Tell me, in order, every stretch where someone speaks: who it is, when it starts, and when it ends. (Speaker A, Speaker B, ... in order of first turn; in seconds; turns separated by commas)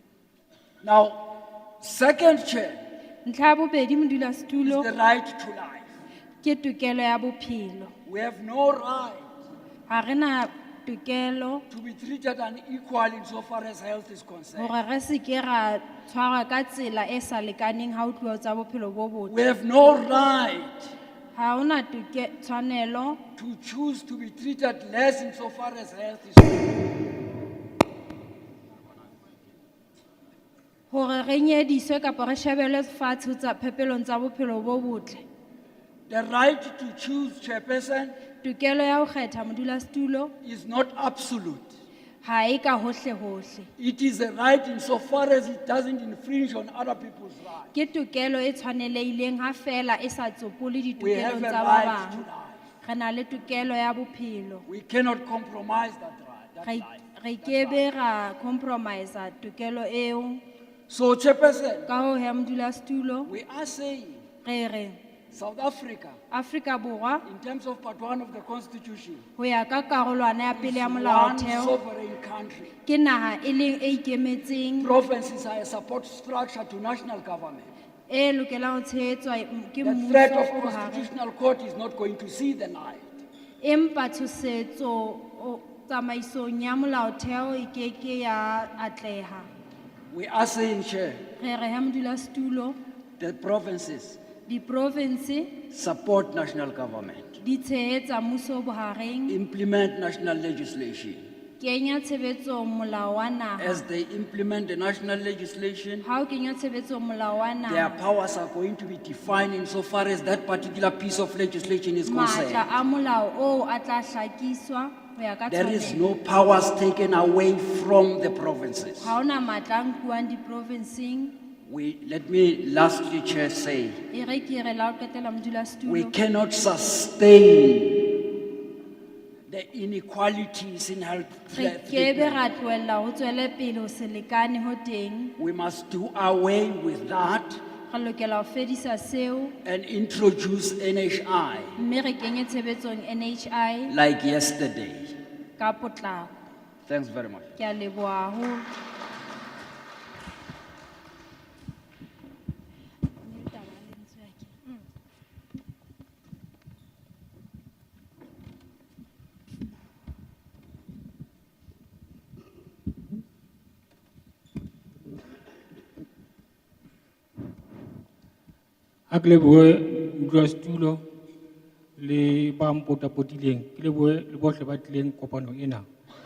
Speaker A: 0.8-1.1, Speaker A: 1.9-2.7, Speaker B: 3.2-4.9, Speaker A: 4.7-5.8, Speaker B: 6.4-7.9, Speaker A: 8.1-9.2, Speaker B: 9.9-11.7, Speaker A: 11.7-14.6, Speaker B: 14.5-19.5, Speaker A: 19.3-20.8, Speaker B: 21.3-23.2, Speaker A: 23.4-26.6, Speaker B: 30.9-35.2, Speaker A: 36.1-38.1, Speaker B: 38.4-40.3, Speaker A: 40.5-41.6, Speaker B: 42.2-43.7, Speaker A: 43.8-47.6, Speaker B: 47.7-52.2, Speaker A: 51.1-52.5, Speaker B: 52.8-54.6, Speaker A: 54.8-56.7, Speaker B: 56.6-60.4, Speaker A: 60.9-61.8, Speaker B: 61.9-63.3, Speaker A: 63.3-64.1, Speaker B: 64.4-65.0, Speaker A: 65.4-66.1, Speaker B: 66.3-67.3, Speaker A: 67.3-69.2, Speaker B: 69.4-71.8, Speaker A: 70.6-72.7, Speaker B: 72.8-75.0, Speaker A: 74.8-77.7, Speaker B: 78.1-81.1, Speaker A: 80.1-83.0, Speaker B: 83.6-89.5, Speaker A: 90.2-91.1, Speaker B: 91.4-92.8, Speaker A: 93.2-94.2, Speaker B: 94.5-95.6, Speaker A: 95.8-97.3, Speaker B: 97.4-99.4, Speaker A: 99.4-101.2, Speaker B: 101.6-103.8, Speaker A: 103.7-106.0, Speaker B: 106.0-108.0, Speaker A: 107.7-112.5, Speaker B: 112.0-116.0, Speaker A: 115.6-119.0, Speaker B: 119.0-121.3, Speaker A: 121.7-123.9, Speaker B: 124.1-126.1, Speaker A: 126.1-128.0, Speaker A: 129.5-132.3, Speaker B: 131.5-135.3, Speaker A: 135.4-137.6, Speaker B: 137.9-139.6, Speaker A: 139.7-141.7, Speaker B: 141.8-143.9, Speaker A: 143.9-145.1, Speaker B: 145.6-146.4, Speaker A: 146.9-147.5, Speaker B: 147.6-148.7, Speaker B: 153.2-154.7, Speaker C: 169.1-171.0, Speaker C: 172.0-175.8